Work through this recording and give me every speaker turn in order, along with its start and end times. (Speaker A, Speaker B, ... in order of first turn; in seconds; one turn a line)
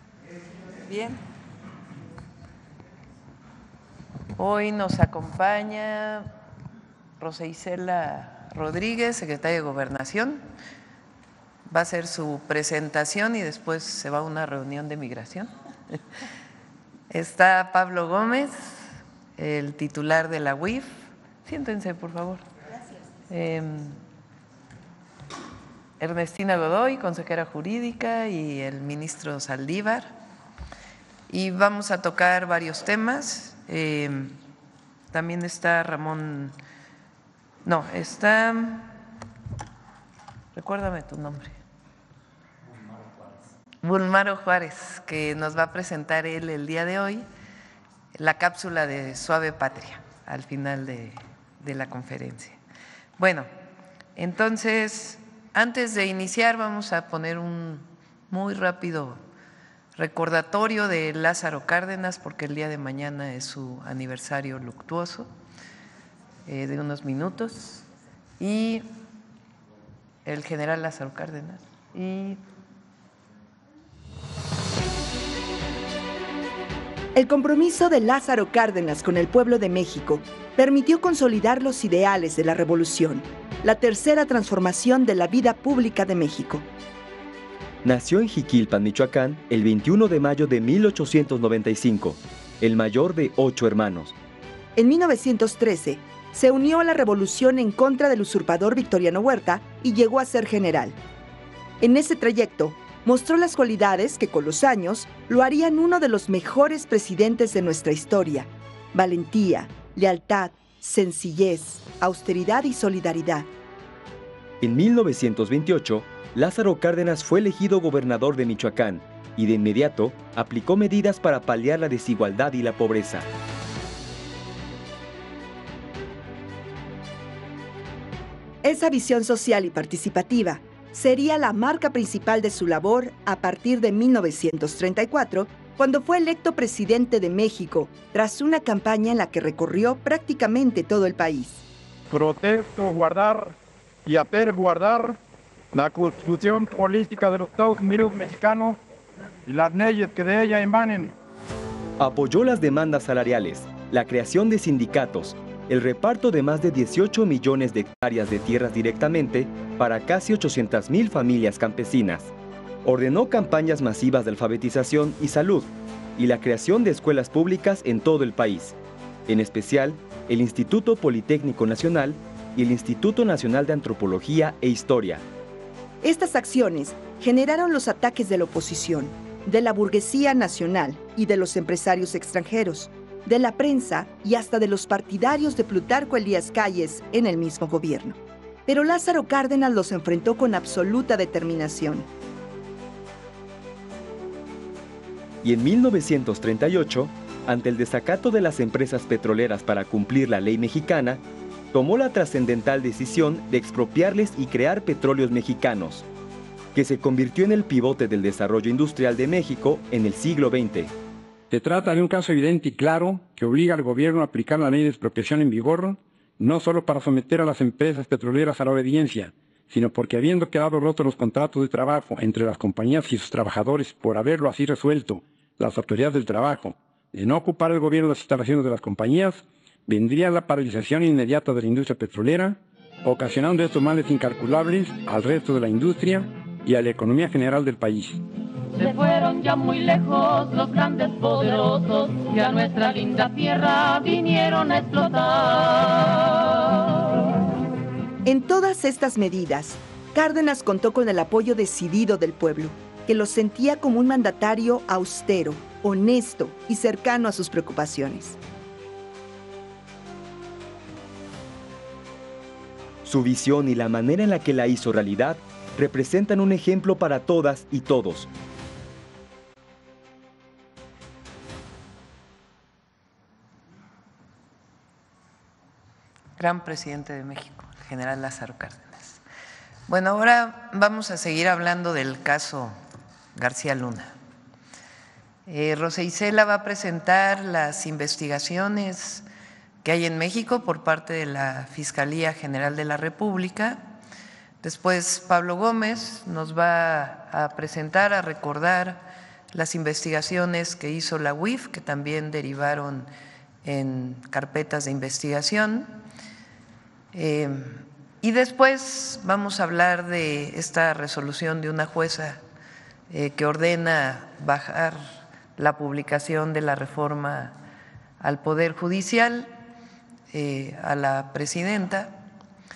Speaker A: 0.8-1.2
Speaker A: 4.3-6.3
Speaker A: 7.2-10.4
Speaker A: 11.7-15.5
Speaker A: 17.1-18.8
Speaker A: 19.4-22.4
Speaker A: 23.3-24.0
Speaker A: 26.0-30.1
Speaker A: 31.3-34.4
Speaker A: 35.1-36.5
Speaker A: 37.6-38.9
Speaker A: 40.5-41.5
Speaker A: 43.8-47.2
Speaker A: 48.1-52.6
Speaker A: 53.2-53.5
Speaker A: 54.1-59.2
Speaker A: 60.0-65.3
Speaker A: 66.5-67.8
Speaker A: 68.4-68.9
Speaker A: 70.2-72.4
Speaker B: 77.1-86.7
Speaker C: 87.8-94.1
Speaker B: 94.8-101.0
Speaker B: 101.8-113.5
Speaker C: 114.6-123.2
Speaker B: 128.6-141.6
Speaker D: 142.1-145.2
Speaker D: 145.7-148.8
Speaker D: 149.4-151.1
Speaker C: 152.0-162.3
Speaker C: 162.8-175.2
Speaker B: 176.0-192.1
Speaker C: 195.4-206.1
Speaker C: 206.7-210.9
Speaker E: 211.5-238.2
Speaker F: 238.7-246.6
Speaker B: 248.2-258.4
Speaker C: 263.0-268.3
Speaker A: 276.4-279.2
Speaker A: 279.9-282.7
Speaker A: 283.3-284.1
Speaker A: 285.4-289.2
Speaker A: 289.8-293.8
Speaker A: 294.6-303.1
Speaker A: 303.6-305.9
Speaker A: 307.1-312.4
Speaker A: 313.1-317.6
Speaker A: 318.2-319.5
Speaker A: 320.3-322.2